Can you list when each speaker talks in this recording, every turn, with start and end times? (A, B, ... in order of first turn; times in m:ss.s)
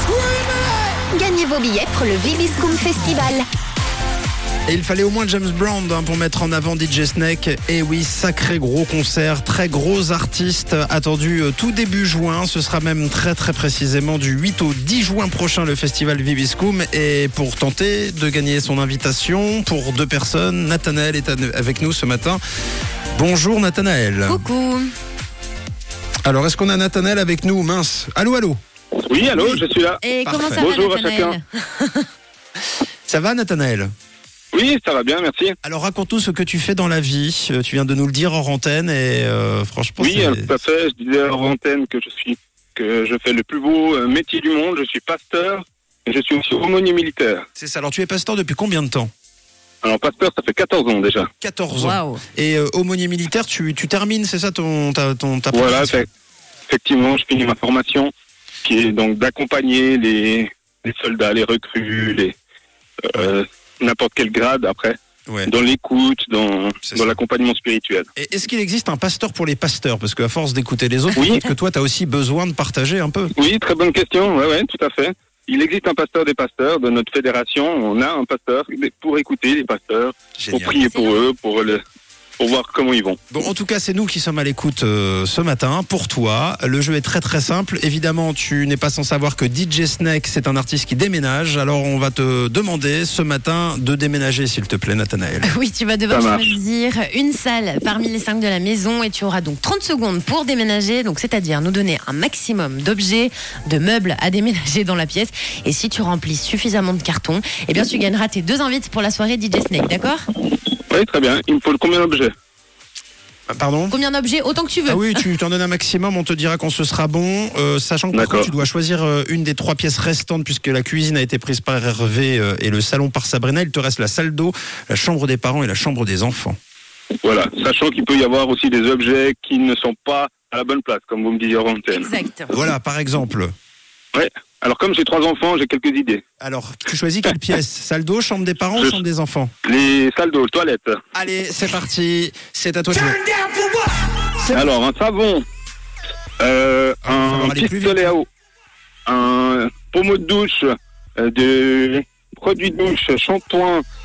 0:01.0-0:03.4 A
0:04.7-0:22.4 B
0:23.1-0:24.4 B
0:24.3-0:24.9 C
0:26.2-0:28.6 B
0:29.0-0:31.4 D
0:30.0-0:32.1 C
0:30.2-0:30.7 B
0:33.1-0:33.9 B
0:34.5-0:35.6 D
0:35.6-0:40.5 B
0:40.0-0:47.4 D
0:47.6-0:49.1 B
0:49.8-0:51.3 D
0:51.4-0:56.1 B
0:51.8-0:52.2 C
0:55.5-0:56.1 D
0:56.7-0:58.1 D
0:58.6-1:02.3 D
1:03.0-1:08.1 D
1:05.3-1:05.5 B
1:06.8-1:07.2 B
1:08.2-1:13.3 B
1:11.1-1:11.5 D
1:13.3-1:21.8 D
1:20.4-1:20.8 B
1:20.8-1:21.3 C
1:22.4-1:23.2 D
1:23.3-1:35.5 B
1:35.4-1:50.3 C
1:36.1-1:36.5 D
1:50.9-1:52.3 D
1:53.5-1:54.0 B
1:53.9-1:55.2 C
1:54.8-2:06.6 B
1:58.1-1:58.5 D
2:07.2-2:12.1 D
2:11.9-2:12.6 C
2:12.5-2:13.5 B
2:14.1-2:16.2 D
2:16.4-2:19.5 B
2:18.8-2:19.0 D
2:19.6-2:21.0 D
2:21.1-2:23.4 B
2:24.4-2:24.7 B
2:24.5-2:25.4 D
2:26.4-2:28.3 D
2:27.0-2:28.2 B
2:29.1-2:33.8 D